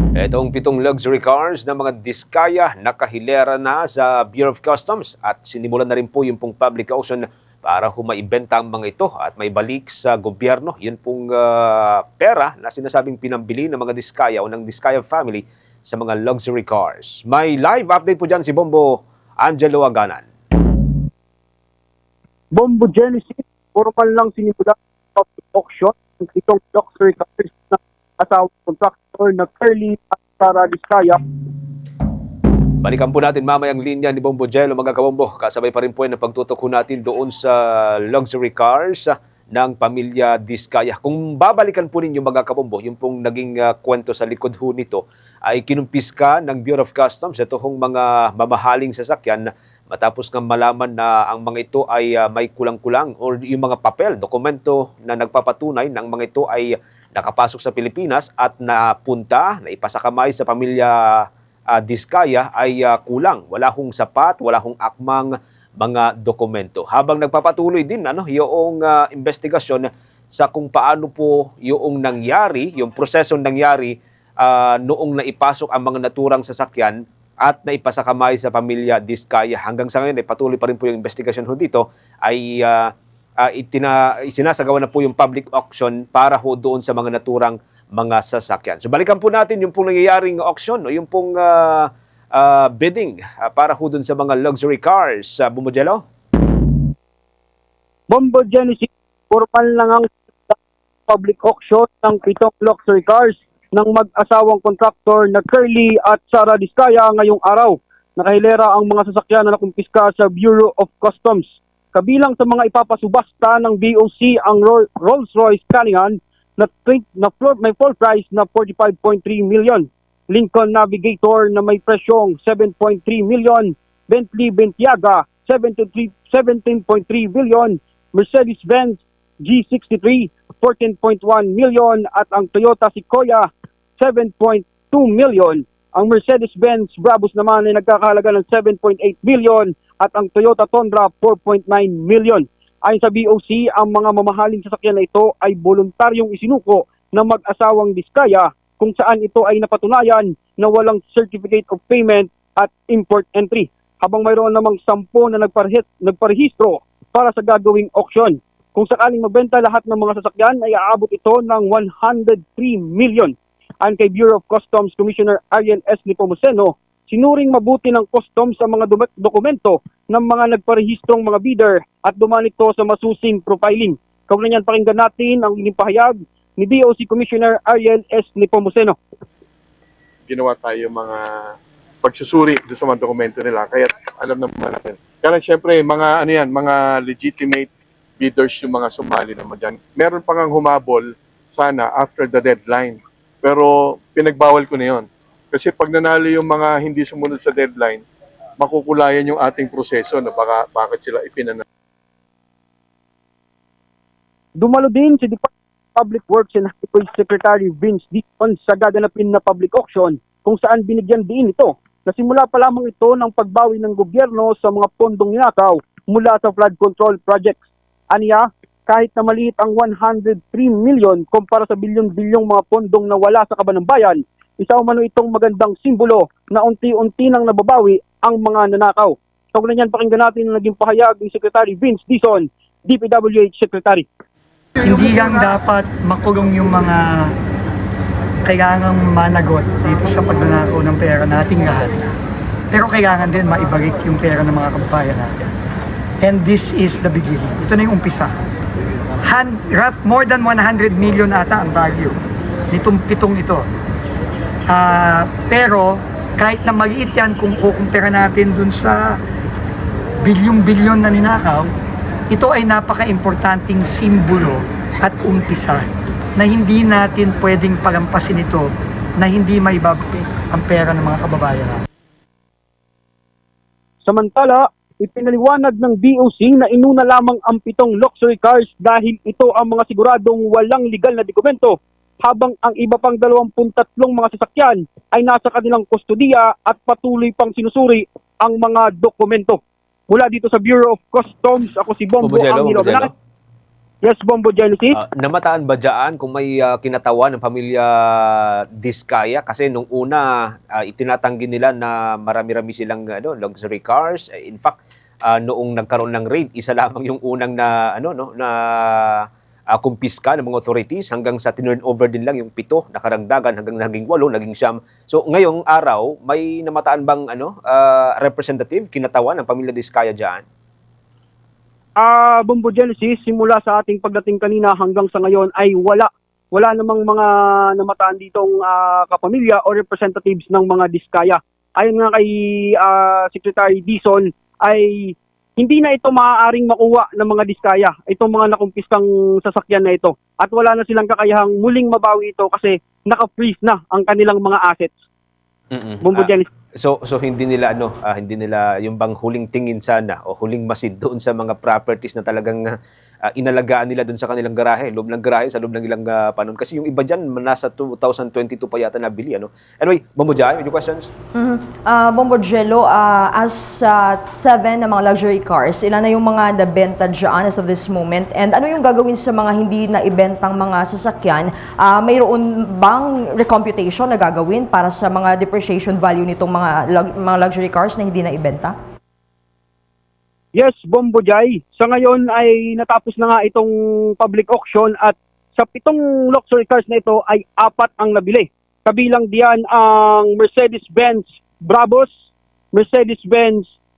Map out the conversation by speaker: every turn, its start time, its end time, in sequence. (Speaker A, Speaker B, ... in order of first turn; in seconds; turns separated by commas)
Speaker A: 0.2-20.3, Speaker B: 22.5-31.2, Speaker A: 32.8-96.0, Speaker B: 98.1-100.6, Speaker B: 101.1-133.5, Speaker B: 134.0-179.0, Speaker C: 180.3-198.0, Speaker C: 198.6-201.6, Speaker B: 204.6-217.6, Speaker B: 218.1-234.1, Speaker D: 234.8-237.3, Speaker D: 238.4-241.9, Speaker D: 242.7-245.3, Speaker D: 246.2-248.3, Speaker D: 249.2-252.2, Speaker D: 252.7-253.7, Speaker D: 254.7-259.2, Speaker D: 260.2-261.7, Speaker D: 262.3-265.9, Speaker D: 266.4-268.7, Speaker D: 269.2-271.8, Speaker B: 274.1-293.1, Speaker A: 292.2-293.1, Speaker B: 294.0-295.0, Speaker A: 294.9-320.4, Speaker B: 322.0-344.9, Speaker A: 345.7-352.8, Speaker B: 346.0-346.5, Speaker A: 353.3-361.1, Speaker E: 361.4-378.8, Speaker B: 380.6-392.1, Speaker B: 392.7-393.7